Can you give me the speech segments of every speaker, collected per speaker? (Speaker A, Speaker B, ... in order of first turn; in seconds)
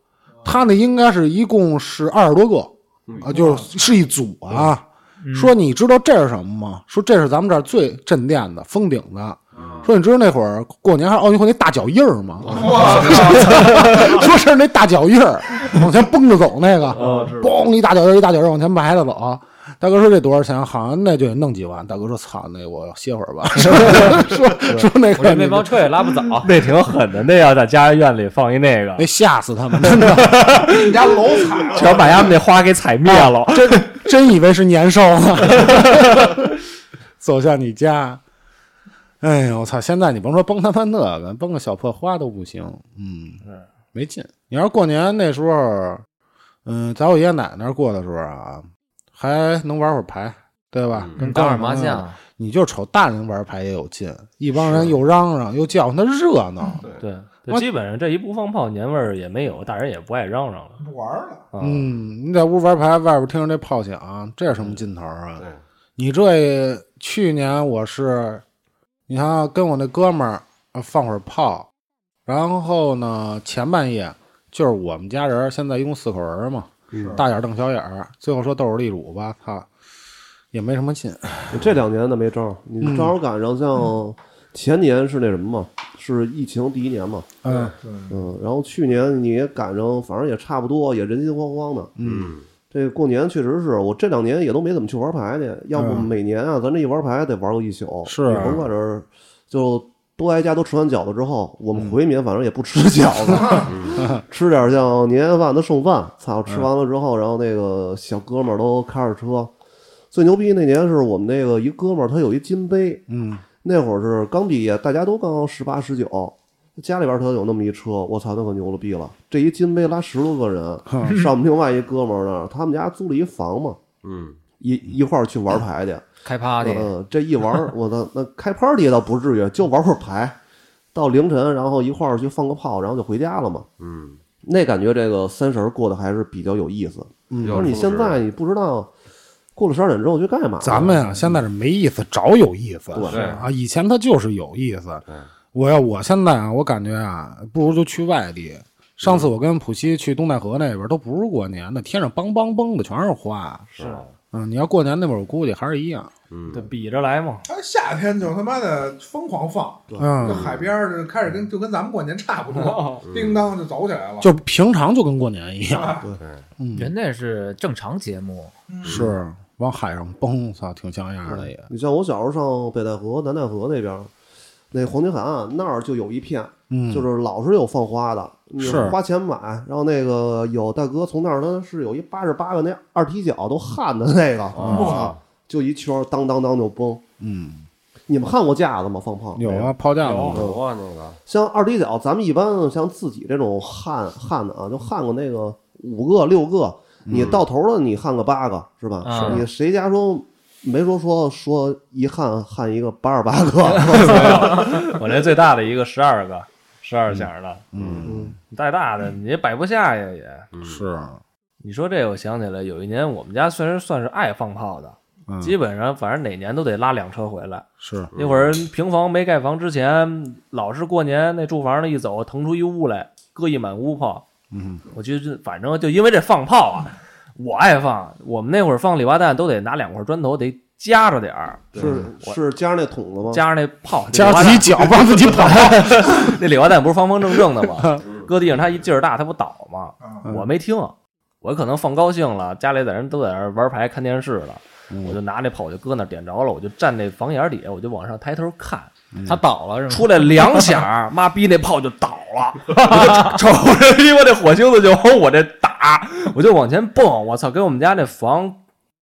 Speaker A: 0.4-25.9, 29.0-30.7, 33.0-36.5, 37.2-38.2, 39.2-43.4, 43.9-46.0, 46.6-56.8, 61.6-65.5, 66.0-68.4, 69.1-71.7, 72.3-79.7, 80.5-81.7, 82.8-83.2, 87.5-87.7, 92.0-92.3, 95.7-96.1, 98.0-98.7, 113.1-113.4, 120.9-121.2, 137.3-137.8, 140.6-153.7, 154.3-156.1, 160.0-160.5, 164.2-166.0, 166.6-166.9, 168.8-171.7, 176.7-177.1, 178.6-179.0, 184.6-184.9, 187.2-187.7, 189.3-190.4, 197.1-197.4, 207.1-208.3, 210.6-211.2, 215.3-215.6, 217.8-218.1, 224.5-224.8, 234.1-236.4, 237.6-238.0, 244.9-245.2, 249.1-249.4
Speaker B: 3.1-3.4, 9.6-9.9, 12.5-12.8, 16.9-17.6, 50.9-51.2, 92.0-92.5, 103.6-104.1, 124.0-124.4, 133.8-134.2, 137.4-138.2, 143.1-143.4, 149.0-149.3, 153.7-154.1, 156.3-156.7, 160.3-160.6, 163.0-163.5, 166.2-166.4, 168.8-169.1, 178.6-179.0, 184.6-185.2, 190.3-191.2, 197.1-197.4, 207.8-208.1, 210.5-210.8, 218.1-218.6, 238.0-238.3
Speaker C: 3.2-3.7, 12.5-13.6, 30.7-32.3, 60.8-61.4, 77.0-77.2, 87.5-88.2, 157.5-164.3, 165.7-166.1, 168.7-169.1, 184.7-185.1
Speaker D: 5.2-5.5, 25.1-26.5, 51.2-52.2, 126.2-126.9, 166.7-168.5, 199.0-199.5, 249.3-250.8, 252.8-253.4
Speaker E: 13.5-13.8, 16.9-17.4, 23.6-24.9, 26.4-29.1, 29.8-34.0, 35.5-36.4, 57.0-60.8, 61.5-61.9, 156.5-157.5, 162.5-163.0, 190.0-190.4, 203.6-207.7, 208.5-210.5, 211.6-224.2, 224.9-232.4, 233.3-248.9, 249.9-258.6
Speaker F: 76.9-77.2, 81.5-87.4, 88.1-92.0, 92.7-109.5, 110.1-113.0, 113.6-123.8, 124.6-126.0, 126.6-130.4, 130.9-133.7, 134.4-138.9, 139.6-141.0, 142.9-143.4, 159.9-160.4, 171.3-174.1, 174.7-187.0, 188.1-189.7, 190.3-190.7, 191.3-204.8, 208.1-208.4, 231.8-233.4